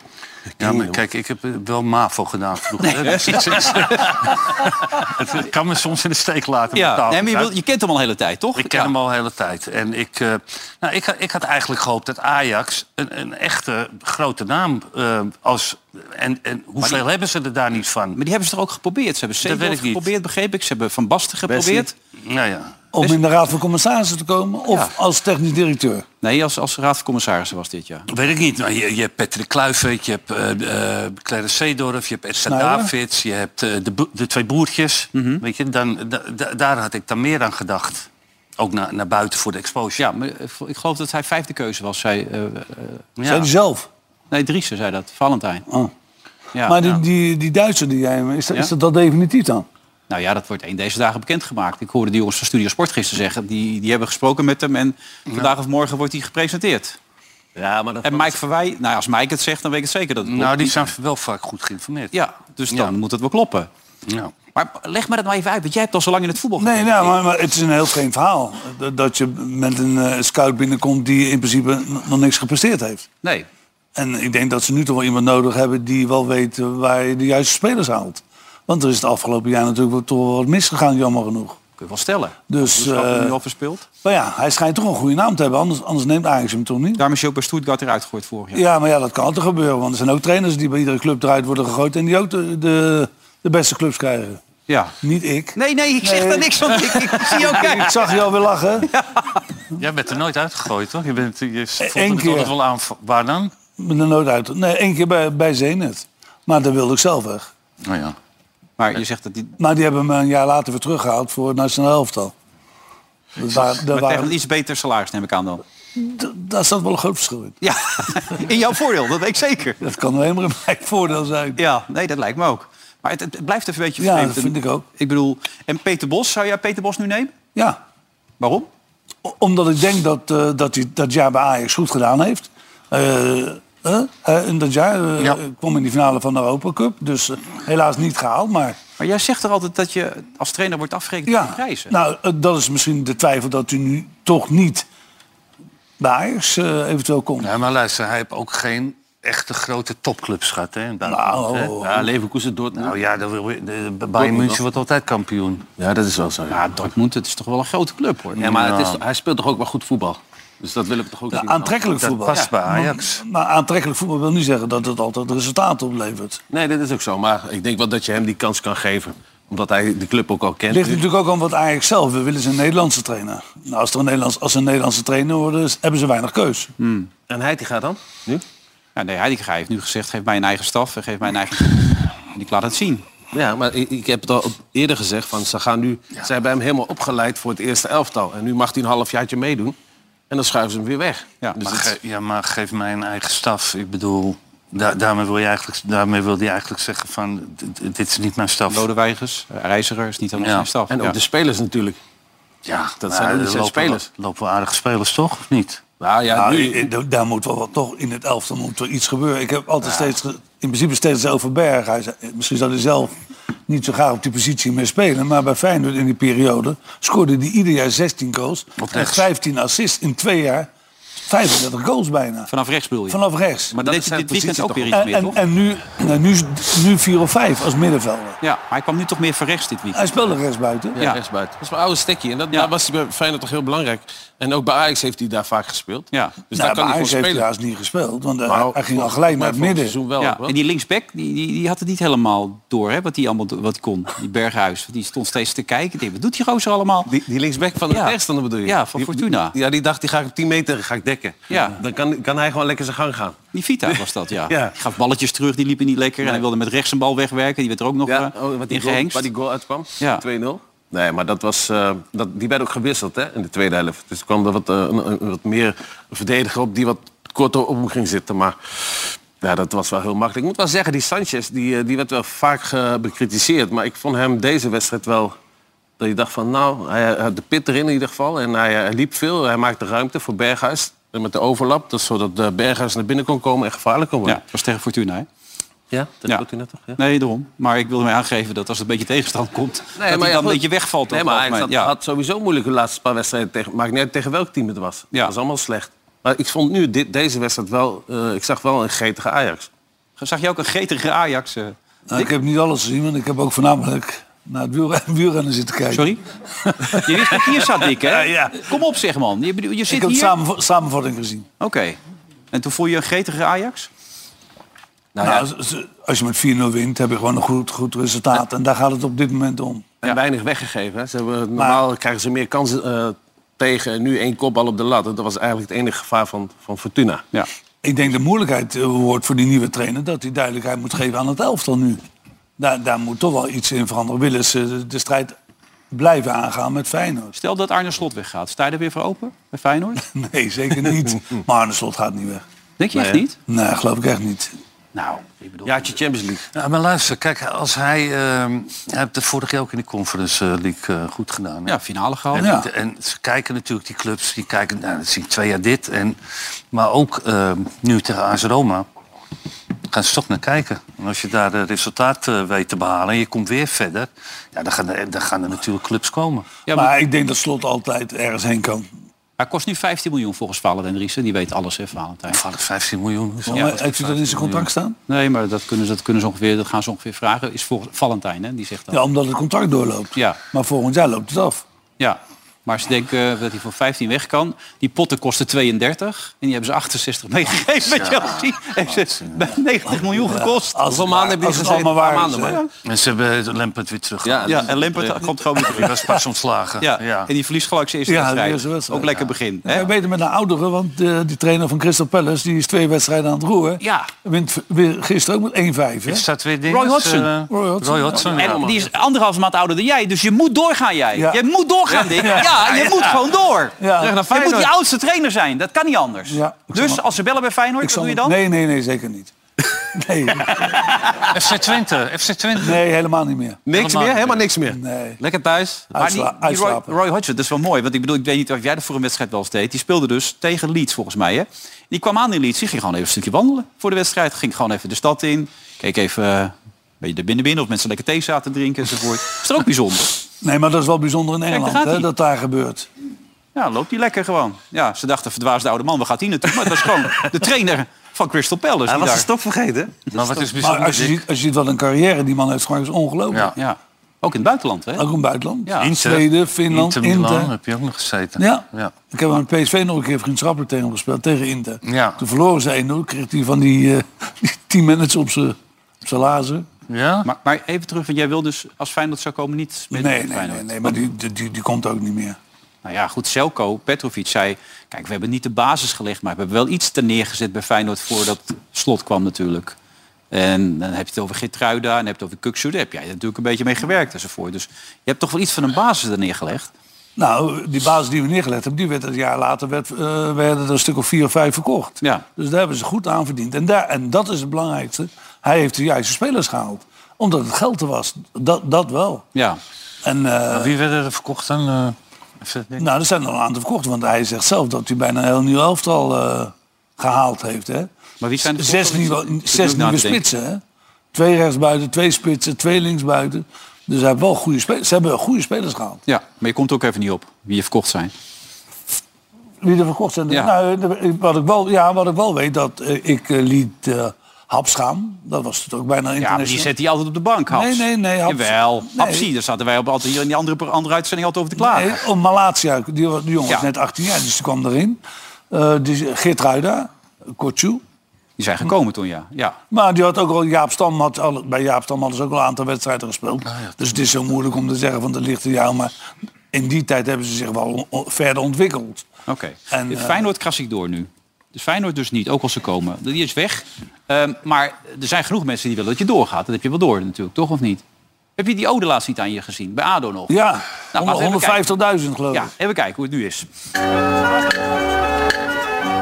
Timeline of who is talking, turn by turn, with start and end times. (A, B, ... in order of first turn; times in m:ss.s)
0:00.6-0:01.0 A
0:00.6-0:07.5 B
0:02.9-0:04.0 A
0:03.1-0:03.8 C
0:06.7-0:08.9 C
0:08.6-0:18.2 B
0:18.2-0:21.9 C
0:19.4-0:20.1 B
0:21.5-0:21.9 A
0:22.2-0:22.8 B
0:22.9-0:26.0 D
0:24.7-0:25.0 C
0:26.2-0:28.1 C
0:28.1-0:40.0 B
0:32.5-0:32.9 D
0:35.1-0:35.4 C
0:40.0-0:43.0 C
0:43.2-0:43.5 B
0:43.2-0:43.9 D
0:44.3-0:45.7 C
0:46.6-0:49.7 D
0:50.1-0:57.0 C
0:57.6-0:58.4 A
0:58.0-1:00.9 C
1:00.2-1:02.2 B
1:02.1-1:03.7 C
1:02.7-1:03.0 B
1:04.1-1:04.3 B
1:04.6-1:07.2 C
1:06.6-1:13.1 D
1:14.0-1:21.6 D
1:21.8-1:23.8 C
1:22.5-1:23.4 D
1:24.0-1:27.0 D
1:27.0-1:28.6 C
1:28.5-1:34.4 D
1:34.7-1:35.0 C
1:35.0-1:38.9 D
1:35.6-1:37.9 C
1:38.9-1:39.4 C
1:39.7-1:43.6 B
1:41.8-1:42.5 D
1:43.8-1:47.5 D
1:47.8-1:48.2 B
1:48.8-1:49.6 C
1:49.6-1:52.3 D
1:53.4-1:54.4 D
1:53.5-1:55.6 C
1:56.0-1:57.6 D
1:57.6-1:59.8 C
1:59.8-2:01.6 D
2:01.6-2:07.4 C
2:04.0-2:04.8 D
2:08.4-2:08.7 C
2:09.2-2:18.8 D
2:19.0-2:21.9 C
2:21.3-2:24.9 D
2:26.0-2:27.5 D
2:27.4-2:31.8 B
2:31.0-2:32.1 D
2:31.8-2:33.0 A
2:32.7-2:35.6 B
2:34.2-2:34.6 A
2:35.8-2:36.6 A
2:36.5-2:38.5 C
2:38.4-2:39.0 B
2:38.4-2:41.7 A
2:41.3-2:46.4 D
2:42.0-2:43.2 B
2:46.5-2:51.0 A
2:50.7-2:56.7 D
2:56.8-2:57.1 C
2:57.3-2:58.4 A
2:59.0-3:03.0 C
3:03.3-3:09.8 A
3:10.3-3:12.0 A
3:11.6-3:18.9 B
3:18.7-3:21.2 C
3:20.4-3:20.7 B
3:20.9-3:22.0 A
3:22.7-3:25.8 B
3:23.0-3:24.1 A
3:26.0-3:26.9 A
3:26.3-3:33.1 D
3:33.7-3:40.7 D
3:38.8-3:39.2 B
3:41.3-3:42.5 D
3:42.5-3:43.2 C
3:43.1-3:43.8 D
3:43.7-3:45.1 A
3:43.8-3:45.4 C
3:44.9-3:48.4 D
3:48.4-3:50.1 C
3:49.9-3:51.0 D
3:51.0-3:57.4 A
3:56.5-4:00.0 D
3:58.5-4:00.5 A
4:00.2-4:07.1 C
4:07.1-4:14.7 A
4:07.9-4:09.5 C
4:11.5-4:11.8 C
4:13.5-4:19.3 C
4:18.1-4:35.4 A
4:36.0-4:44.4 A
4:44.3-4:45.3 C
4:45.9-4:47.0 A
4:47.0-4:51.9 C
4:50.0-4:59.7 A
5:00.2-5:02.3 C
5:02.1-5:07.2 D
5:05.9-5:06.2 C
5:06.9-5:10.4 C
5:08.2-5:08.5 A
5:09.9-5:11.5 D
5:11.6-5:12.0 C
5:12.5-5:13.9 C
5:15.2-5:15.4 A
5:15.2-5:19.9 D
5:20.0-5:27.2 A
5:21.6-5:21.8 D
5:27.8-5:32.0 D
5:32.6-5:35.4 D
5:35.9-5:37.4 D
5:37.4-5:40.0 C
5:40.0-5:42.4 D
5:42.8-5:43.4 C
5:43.0-5:43.2 A
5:43.5-5:44.6 D
5:45.0-5:45.9 C
5:45.6-5:46.5 A
5:46.5-5:51.8 B
5:51.7-5:52.5 C
5:52.3-5:56.2 B
5:52.4-5:52.7 D
5:56.7-5:58.9 B
5:59.9-6:06.5 B
6:06.7-6:06.9 C
6:06.7-6:08.9 D
6:09.4-6:12.4 C
6:12.3-6:14.7 B
6:13.5-6:15.0 D
6:13.5-6:13.8 C
6:15.1-6:19.0 C
6:18.9-6:21.6 D
6:22.0-6:30.8 C
6:27.9-6:29.4 B
6:30.2-6:32.6 D
6:30.9-6:32.6 A
6:32.4-6:32.7 C
6:32.8-6:34.7 B
6:34.2-6:35.8 A
6:34.5-6:36.2 C
6:35.7-6:37.3 B
6:36.8-6:39.9 C
6:38.1-6:46.2 D
6:43.8-6:44.1 C
6:46.1-6:48.7 B
6:46.7-6:47.3 C
6:47.5-6:48.2 D
6:48.2-6:48.8 A
6:48.3-6:53.8 C
6:51.2-6:51.4 D
6:52.0-6:53.2 A
6:52.1-6:52.7 D
6:53.8-6:54.2 D
6:54.0-6:54.7 A
6:54.3-6:58.4 C
6:56.3-6:57.0 D
6:57.8-6:59.3 D
6:59.9-7:01.1 D
7:01.3-7:02.8 B
7:02.6-7:03.6 D
7:03.7-7:06.0 A
7:03.7-7:04.4 B
7:04.7-7:05.2 D
7:06.0-7:06.9 D
7:06.0-7:20.2 C
7:20.4-7:22.9 D
7:21.5-7:22.1 C
7:23.6-7:29.3 C
7:28.9-7:30.0 A
7:30.1-7:30.4 C
7:30.1-7:31.2 B
7:30.6-7:33.5 D
7:33.6-7:35.1 C
7:35.0-7:37.5 D
7:35.8-7:38.9 B
7:38.4-7:46.7 D
7:41.8-7:42.2 B
7:46.9-7:47.3 B
7:47.2-7:51.0 C
7:49.9-7:52.4 D
7:52.8-7:59.8 C
8:00.3-8:06.7 C
8:07.2-8:19.2 D
8:19.4-8:19.6 C
8:20.0-8:20.8 D
8:20.5-8:22.9 B
8:22.8-8:27.9 D
8:28.2-8:30.2 C
8:28.4-8:30.6 D
8:31.1-8:36.0 D
8:36.1-8:38.1 C
8:39.6-8:46.7 D
8:46.2-8:52.0 C
8:47.5-8:49.3 D
8:51.6-8:57.8 D
8:58.4-8:59.6 C
8:59.7-9:05.9 D
9:03.5-9:04.0 B
9:06.5-9:09.0 D
9:09.3-9:17.8 C
9:09.7-9:10.3 D
9:18.4-9:20.4 C
9:20.3-9:22.5 D
9:20.9-9:21.7 C
9:22.3-9:23.5 C